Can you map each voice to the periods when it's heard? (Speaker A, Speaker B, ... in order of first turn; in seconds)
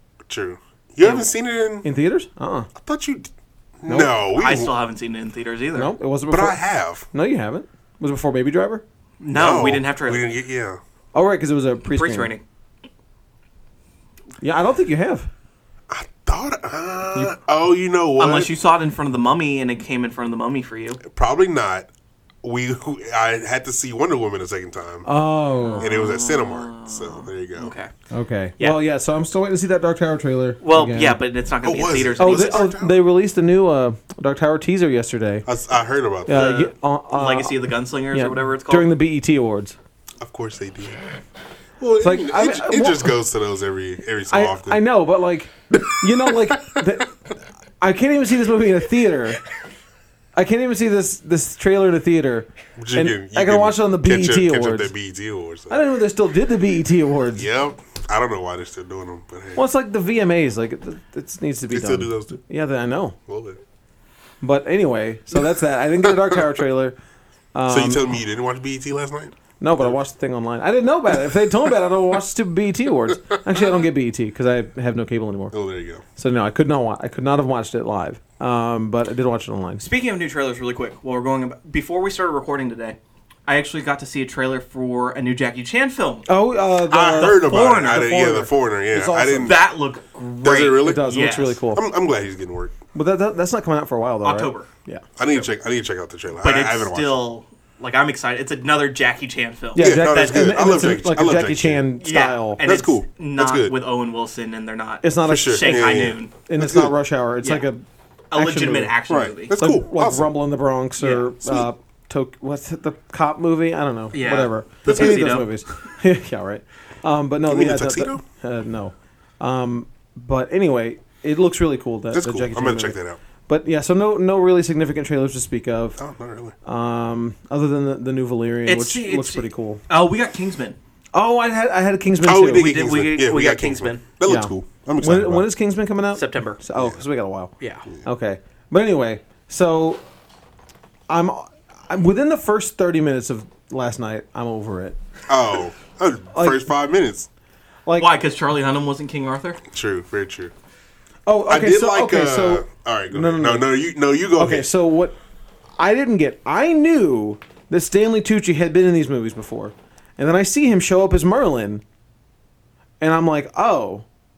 Speaker A: 0.3-1.9, 2.8-3.3, 3.8-4.7, 6.3-7.1, 9.3-10.8, 15.9-18.5, 21.0-21.9, 22.4-25.1, 25.8-27.7, 31.6-33.0, 35.5-36.5, 40.2-41.0, 41.8-44.8, 45.7-46.8, 52.8-55.8, 57.4-59.6, 61.7-62.4, 63.3-63.6, 67.7-70.0, 75.5-76.0, 86.9-89.6, 90.4-91.1, 91.7-92.8, 95.2-97.2, 99.8-101.8, 102.6-103.8, 105.3-106.9, 109.1-110.3, 114.8-115.4, 117.5-118.2, 122.1-123.2, 126.0-126.5, 132.2-135.5, 145.3-147.3, 149.7-150.5, 151.5-154.7
Speaker B: 1.0-1.3, 4.4-5.9, 9.2-10.2, 11.9-12.4, 18.2-21.0, 25.6-27.9, 30.6-32.7, 36.3-38.9, 79.8-86.3, 87.1-88.2, 89.4-91.6, 94.2-94.7, 96.4-100.5, 102.0-106.3, 108.3-109.5, 111.0-111.3, 114.1-115.5, 128.7-130.8, 132.5-134.1, 136.2-136.6, 137.6-137.9, 148.0-149.6
Speaker C: 1.8-2.7, 3.9-4.2, 5.8-6.6, 7.1-8.8, 11.1-12.3, 14.4-15.3, 25.1-25.9, 28.1-31.2, 32.2-35.5, 36.3-39.8, 42.0-43.2, 44.3-47.2, 47.8-49.4, 50.4-54.9, 55.7-57.5, 59.5-63.2, 64.4-67.0, 67.5-68.1, 69.6-75.5, 76.2-79.8, 86.3-89.6, 90.8-91.8, 92.9-95.0, 99.8-102.6, 105.0-109.0, 109.6-126.0, 126.7-129.8, 131.1-132.7, 134.2-140.0, 141.1-145.0, 146.3-146.7, 147.9-148.1, 151.3-153.7, 154.4-155.2, 155.8-161.8, 163.0-164.1